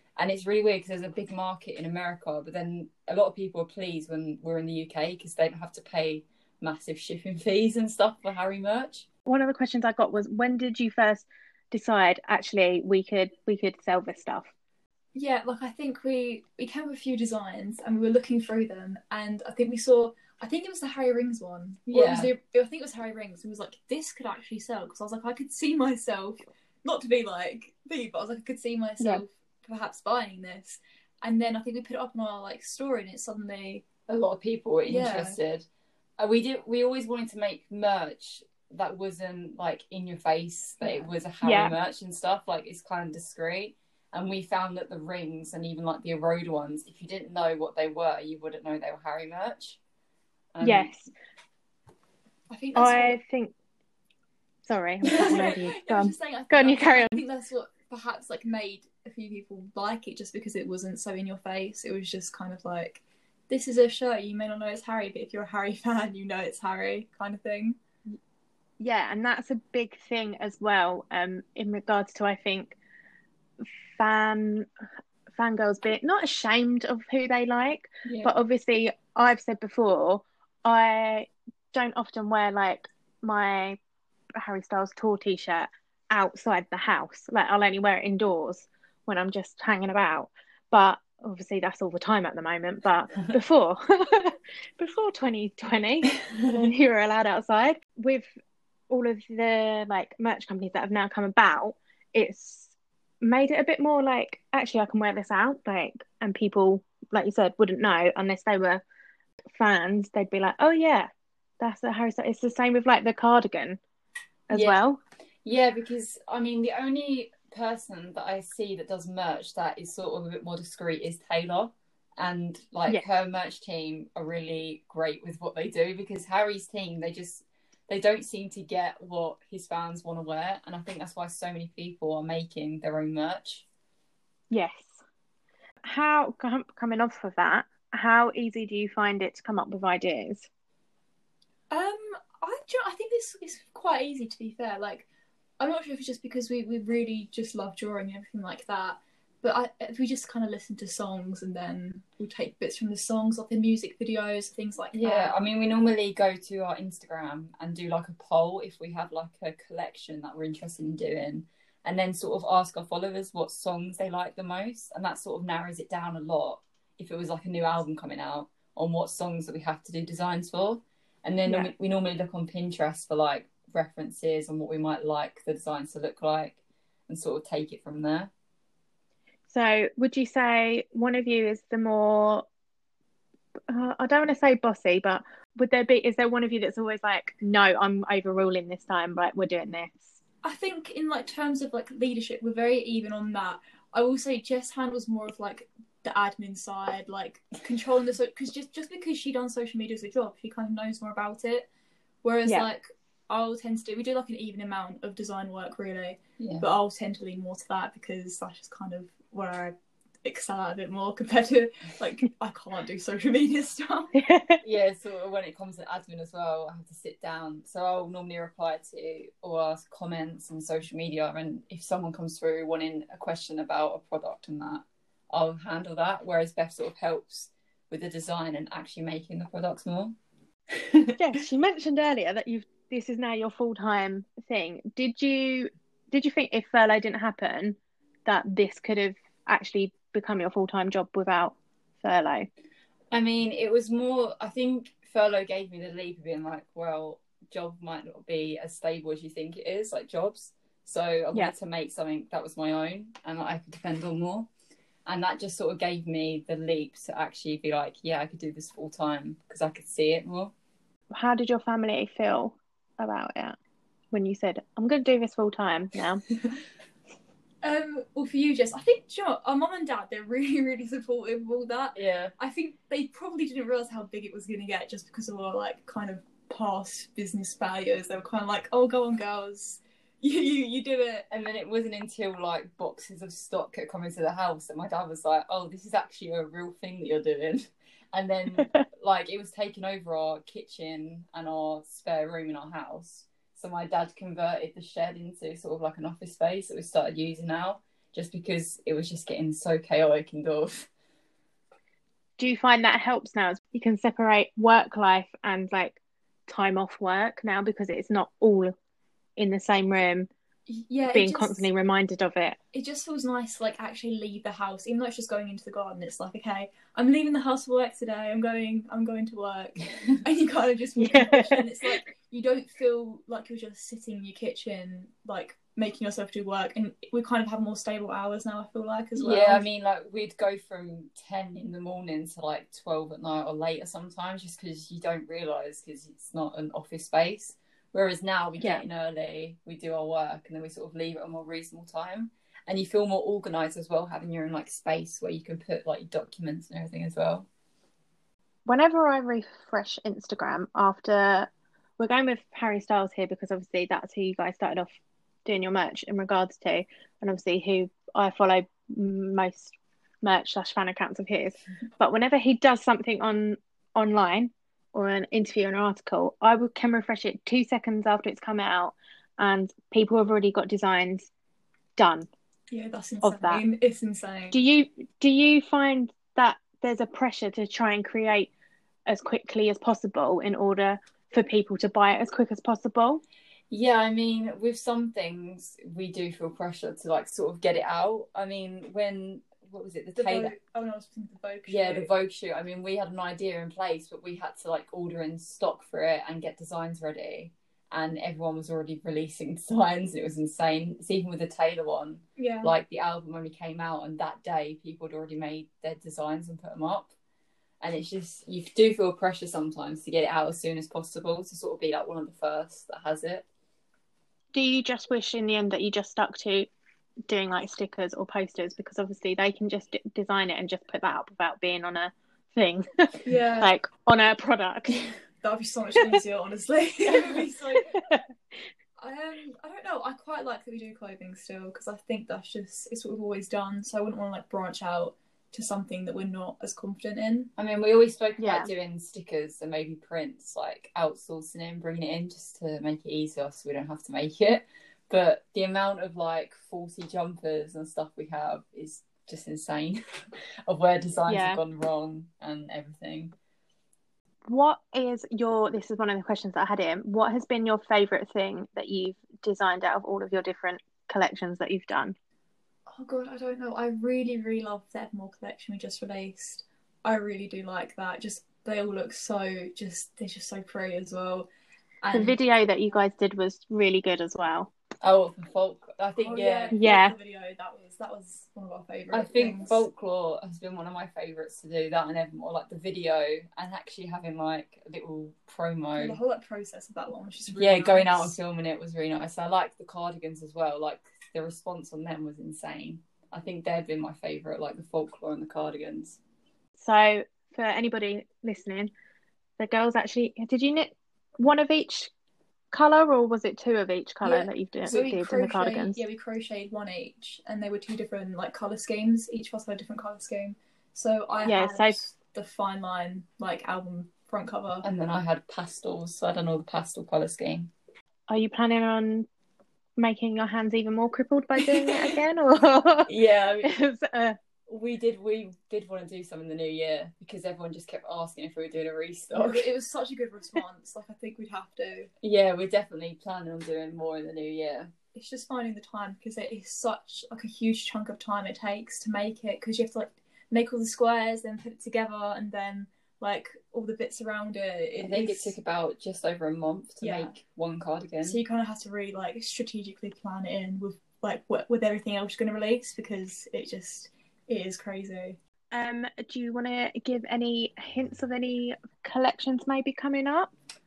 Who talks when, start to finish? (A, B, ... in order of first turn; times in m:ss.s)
0:00.2-0:09.1 A
0:09.3-0:14.5 B
0:15.1-0:33.9 C
0:21.9-0:22.3 A
0:34.1-0:35.7 A
0:34.9-0:35.4 C
0:36.2-0:49.8 A
0:41.4-0:41.7 B
0:50.5-0:50.9 A
0:50.6-0:51.1 B
0:52.5-0:53.2 C
0:52.8-0:53.6 B
0:54.6-0:57.2 B
0:55.1-1:07.8 C
1:08.8-1:12.8 B
1:14.0-1:14.7 B
1:15.3-1:23.8 B
1:18.1-1:18.3 C
1:24.4-1:38.3 B
1:38.9-1:48.8 B
1:49.5-1:53.8 B
1:54.5-1:55.0 B
1:54.5-1:54.8 A
1:55.4-2:13.6 A
2:14.5-2:15.0 B
2:15.8-2:20.5 B
2:21.7-2:25.1 C
2:25.6-2:35.4 C
2:34.9-2:58.3 A
2:51.5-2:51.7 B
2:59.5-3:02.5 B
3:03.7-3:10.1 B
3:10.4-3:21.7 C
3:22.2-3:34.2 C
3:26.4-3:26.7 A
3:34.2-3:34.6 B
3:34.6-3:50.2 A
3:50.8-3:51.2 A
3:51.2-4:02.5 B
4:03.1-4:14.5 A
4:15.1-4:20.5 A
4:21.1-4:23.6 B
4:24.1-4:26.2 B
4:27.6-4:41.3 C
4:32.0-4:32.3 A
4:41.3-5:00.9 A
5:02.4-5:08.7 B
5:09.4-5:10.3 B
5:10.7-5:11.7 C
5:11.1-5:12.6 B
5:12.7-5:29.6 C
5:21.0-5:22.0 B
5:29.2-5:47.5 A
5:48.7-6:11.3 B
6:12.0-6:12.3 B
6:12.7-6:14.6 C
6:13.2-6:13.6 B
6:14.5-6:18.5 B
6:19.1-6:23.2 B
6:23.7-6:30.5 A
6:30.2-6:32.1 C
6:31.7-6:47.1 A
6:42.4-6:42.7 C
6:47.8-6:53.5 A
6:54.5-6:56.7 B
6:57.3-7:05.0 B
7:03.2-7:03.7 C
7:05.4-7:08.0 C
7:07.2-7:07.4 B
7:07.9-7:08.2 B
7:09.0-7:17.5 C
7:17.6-7:30.0 A
7:18.4-7:18.7 B
7:30.7-7:33.3 A
7:31.3-7:31.6 B
7:34.5-7:42.2 B
7:42.9-7:51.5 C
7:52.0-7:52.4 C
7:52.1-7:54.7 B
7:55.0-7:56.8 A
7:56.2-7:59.8 C
7:56.7-7:57.2 B
7:59.1-8:06.2 A
8:06.0-8:08.3 C
8:07.5-8:16.2 A
8:16.8-8:18.9 B
8:19.6-8:22.1 B
8:22.7-8:26.0 B
8:24.2-8:34.9 C
8:31.4-8:32.0 B
8:34.8-8:37.7 A
8:38.3-8:39.3 B
8:40.0-8:43.1 B
8:41.7-8:42.1 A
8:43.1-8:43.8 A
8:43.6-8:44.4 B
8:44.7-8:49.7 A
8:49.3-8:52.1 C
8:52.2-8:54.9 A
8:55.2-9:05.6 C
9:05.0-9:08.4 A
9:07.0-9:07.3 C
9:08.2-9:15.4 C
9:15.7-9:20.5 B